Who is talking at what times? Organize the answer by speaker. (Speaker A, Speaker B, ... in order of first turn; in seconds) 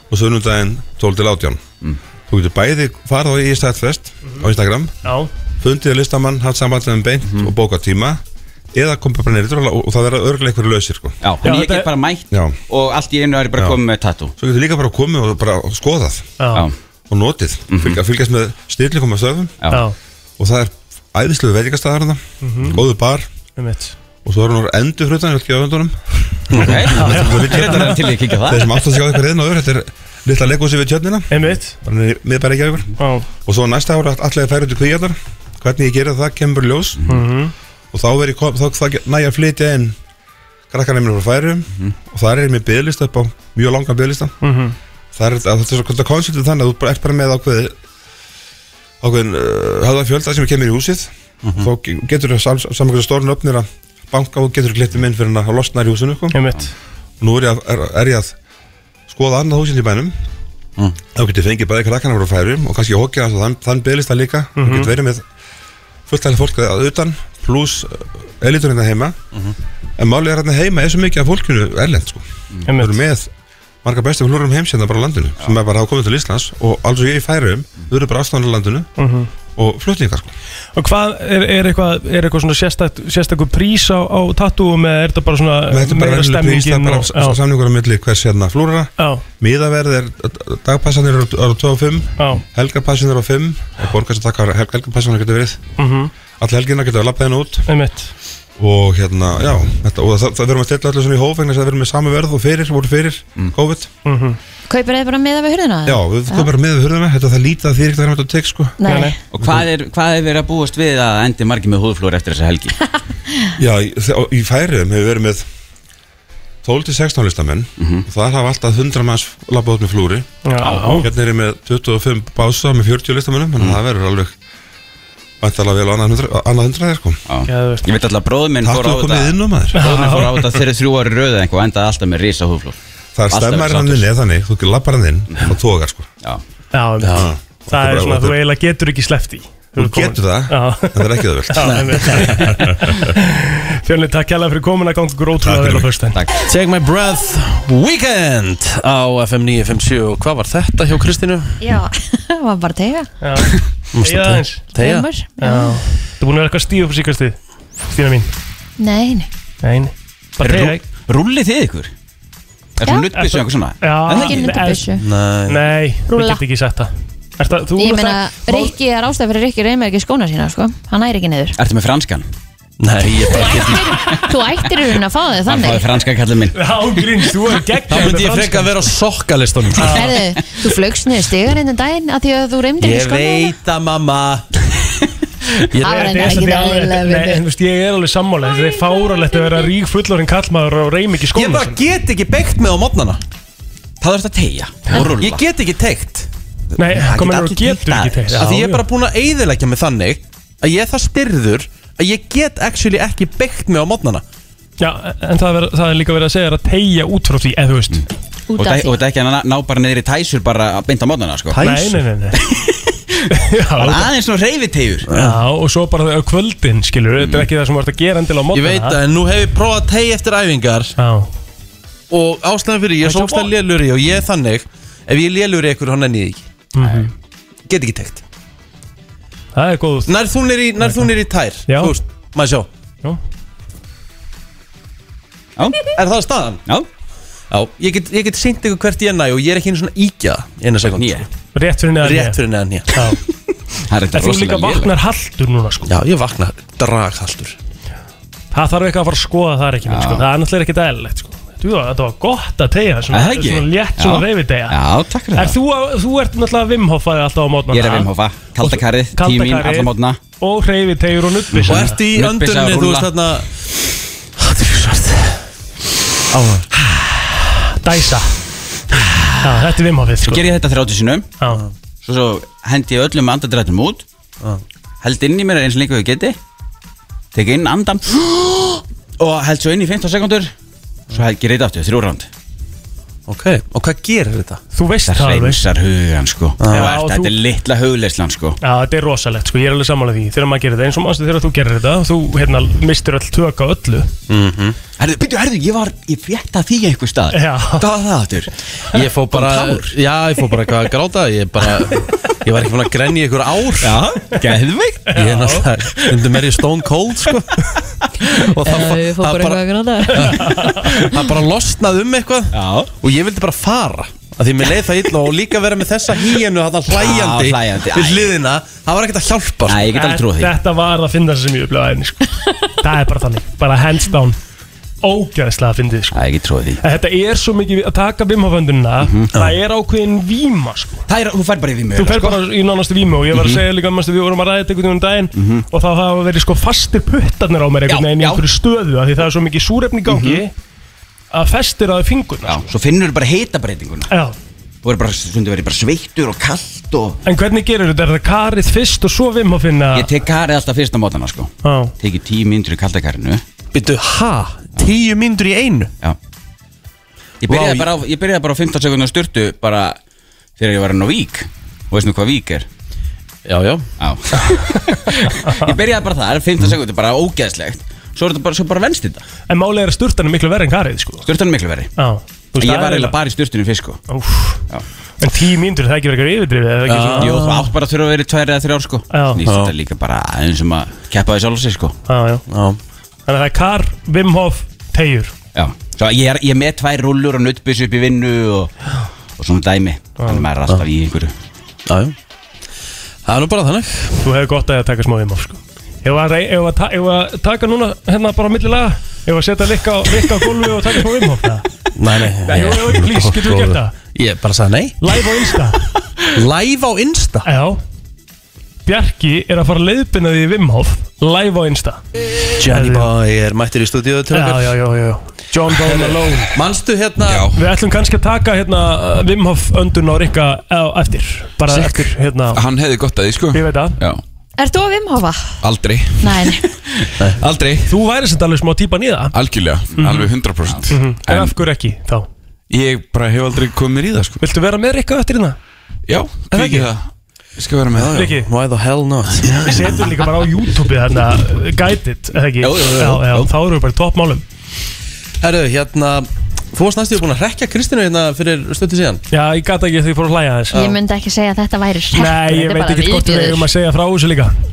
Speaker A: 0.1-1.6, 2.3-4.9, 5.6-8.2, 8.7-11.2, 12.3-12.6, 14.4-16.3, 17.1-19.6, 20.4-23.3, 24.2-26.0, 26.5-37.0, 37.9-40.0, 40.7-44.3, 45.1-47.8, 49.0-56.5, 57.2-58.4, 59.1-60.1, 61.1-65.2, 66.1-69.2, 70.0-73.3, 73.8-78.9, 79.6-80.3, 85.7-95.6, 96.4-97.7, 98.6-103.9, 105.9-108.8, 109.4-109.7, 113.6-115.5, 116.6-124.3, 125.4-127.2, 128.6-129.9, 133.2-136.1, 137.2-138.4, 139.8-143.0, 145.4-145.9
Speaker B: 5.0-5.3, 11.4-11.9, 16.4-16.7, 19.7-20.0, 22.4-22.8, 23.6-23.9, 26.9-28.1, 31.3-31.8, 33.0-33.3, 37.1-37.5, 44.4-44.8, 56.3-56.7, 64.6-64.9, 72.7-73.0, 79.0-79.3, 80.8-87.4, 89.0-89.2, 92.2-92.4, 95.8-96.1, 97.7-98.1, 104.0-104.4, 108.9-109.2, 120.5-121.1, 127.5-127.9, 129.7-130.5, 136.7-146.2, 153.2-154.7, 155.4-157.4, 157.9-158.3, 159.6-160.8, 163.1-164.9, 165.5-168.8, 176.6-178.9, 179.8-180.1, 185.8-191.8, 196.8-198.8, 204.8-208.1, 211.6-212.4, 213.3-214.1, 215.2-219.0, 221.0-221.3, 223.0-223.5, 226.8-227.1, 229.6-230.1, 230.8-231.1, 231.7-231.9, 241.6-242.4, 242.9-243.2, 244.1-245.9, 248.5-254.8, 255.3-258.1, 258.6-262.0, 267.8-268.4, 269.4-270.5, 284.7-285.6, 286.7-287.4, 288.6-294.1, 297.3-297.9, 305.1-305.7, 310.3-310.9, 319.9-324.4, 325.0-326.2, 326.8-331.1, 332.0-340.5, 341.3-342.7, 344.1-344.4, 347.2-350.1, 351.6-351.9, 365.4-365.8, 369.5-371.2, 372.0-373.1, 374.1-374.6, 375.2-377.4, 379.1-379.4, 382.1-382.4, 383.3-385.3, 394.2-401.7, 402.4-403.9, 405.0-405.8, 407.4-407.8, 408.9-412.0, 412.7-413.1, 414.3-416.6, 417.5-422.6, 423.5-424.0, 427.9-429.3, 429.9-430.3, 430.9-432.3, 434.4-435.6, 436.5-436.9, 438.1-438.5, 439.6-444.4, 449.3-450.9, 452.1-454.6
Speaker C: 7.3-7.5, 11.2-14.3, 17.7-18.0, 26.5-28.8, 109.3-112.8, 117.8-118.0, 120.6-120.9, 127.3-132.8, 133.3-134.1, 146.1-146.4, 160.4-161.9, 162.8-164.5, 171.6-172.3, 175.5-176.6, 194.0-195.4, 196.8-198.5, 207.9-211.6, 212.4-213.2, 213.8-215.1, 226.8-227.1, 235.6-235.9, 240.9-241.3, 243.8-244.9, 249.9-250.2, 253.1-255.6, 257.7-260.2, 261.5-263.1, 270.2-271.3, 272.0-274.1, 275.0-276.4, 277.3-280.5, 281.1-282.3, 285.1-288.6, 295.0-299.9, 303.8-305.1, 312.5-312.9, 316.9-318.3, 319.7-320.5, 326.1-326.8, 329.0-329.3, 331.1-332.4, 333.3-333.6, 335.4-335.6, 337.9-338.4, 340.1-340.4, 342.5-344.1, 344.8-347.2, 349.9-353.4, 357.4-360.0, 360.6-362.7, 364.0-369.2, 371.2-371.9, 372.6-374.0, 377.2-382.0, 385.6-391.3
Speaker D: 51.4-51.7, 137.0-137.3, 141.6-142.4, 146.4-151.6, 153.9-155.1, 165.0-165.7, 172.8-174.0, 177.9-180.1, 182.8-184.5, 185.7-186.4, 191.3-193.2, 194.9-196.3, 198.3-204.2, 211.5-212.0, 215.1-215.4, 218.5-221.0, 222.1-226.5, 227.7-228.2, 230.1-232.7, 235.9-236.6, 237.5-241.3, 242.0-243.0, 245.9-247.6, 261.7-263.5, 264.4-265.4, 266.3-266.7, 283.3-284.6, 286.6-287.0, 294.3-294.8, 298.9-304.0, 305.1-319.9, 353.7-355.9, 357.5-357.9, 363.5-363.9, 376.9-377.7, 379.4-379.7, 382.5-382.8, 391.9-392.1, 393.2-394.2, 401.9-405.0, 406.2-407.5, 412.6-414.8, 415.7-417.5, 437.9-439.9, 445.4-449.2
Speaker E: 104.7-106.5, 108.8-109.2, 151.6-153.1, 154.8-155.8, 158.8-159.3, 164.1-165.1, 166.1-166.4, 167.8-171.6, 173.3-175.9, 179.9-183.5, 185.8-187.4, 208.5-209.0, 308.4-310.7, 424.6-425.6, 426.2-426.7, 450.7-453.7
Speaker F: 417.2-417.6, 422.5-424.2, 425.6-426.5, 427.0-427.9, 429.3-431.6, 432.7-434.4, 436.1-438.2